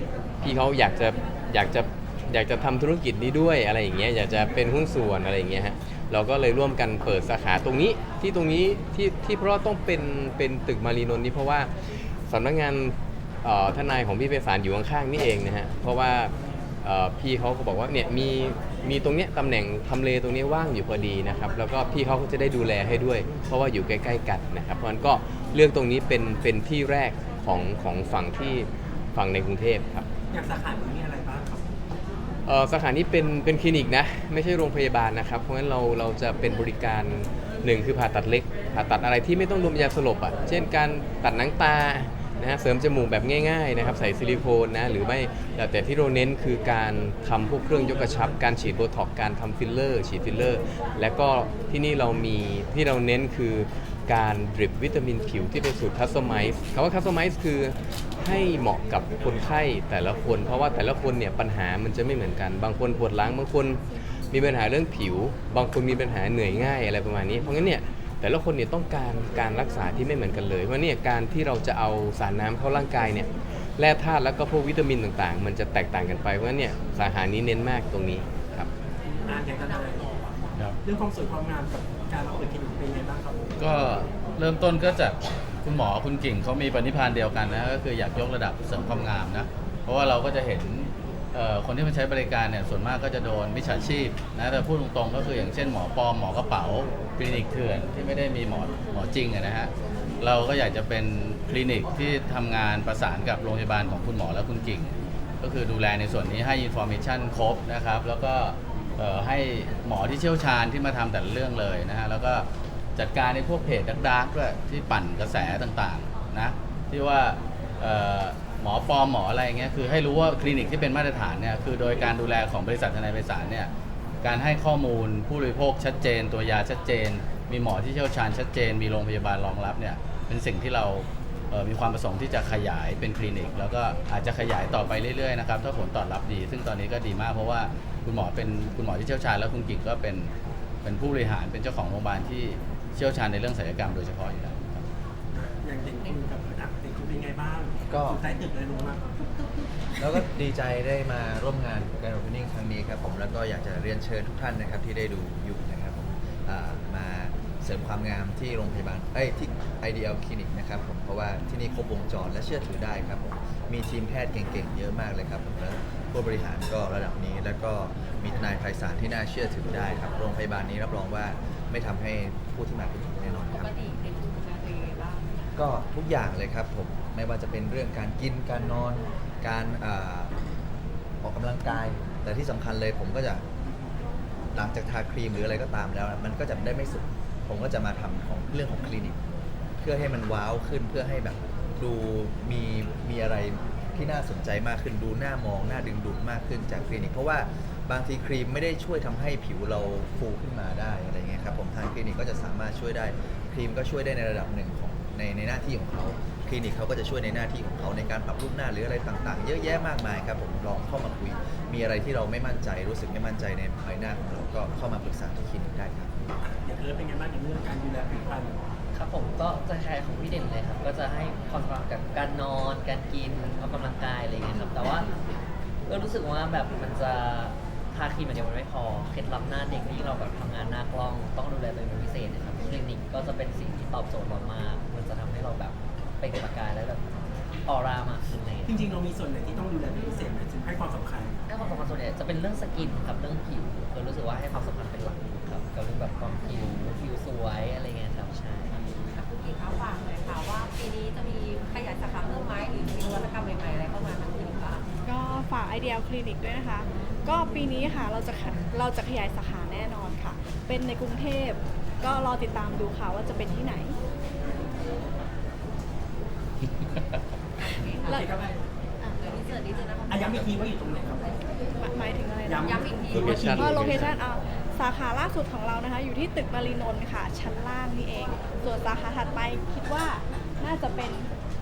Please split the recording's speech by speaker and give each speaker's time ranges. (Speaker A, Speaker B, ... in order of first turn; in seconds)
Speaker A: 0.4-30.1, 32.5-78.7, 273.1-274.1
Speaker B: 30.3-31.7, 79.0-80.3, 80.8-83.5, 145.3-149.2, 216.4-218.6, 238.6-241.4, 268.1-268.6, 270.1-271.3, 272.4-274.1
Speaker C: 83.6-123.7, 124.2-140.3, 140.8-144.8
Speaker D: 147.9-148.2, 150.0-173.7, 175.6-180.3, 181.2-183.4, 184.5-189.2, 189.8-216.1
Speaker E: 173.6-175.2, 249.1-254.8, 267.6-268.2, 269.2-270.1, 272.8-273.4
Speaker F: 218.9-225.1, 225.9-237.0, 237.7-238.8, 241.5-248.8
Speaker G: 255.1-264.0, 271.8-272.8, 273.6-281.3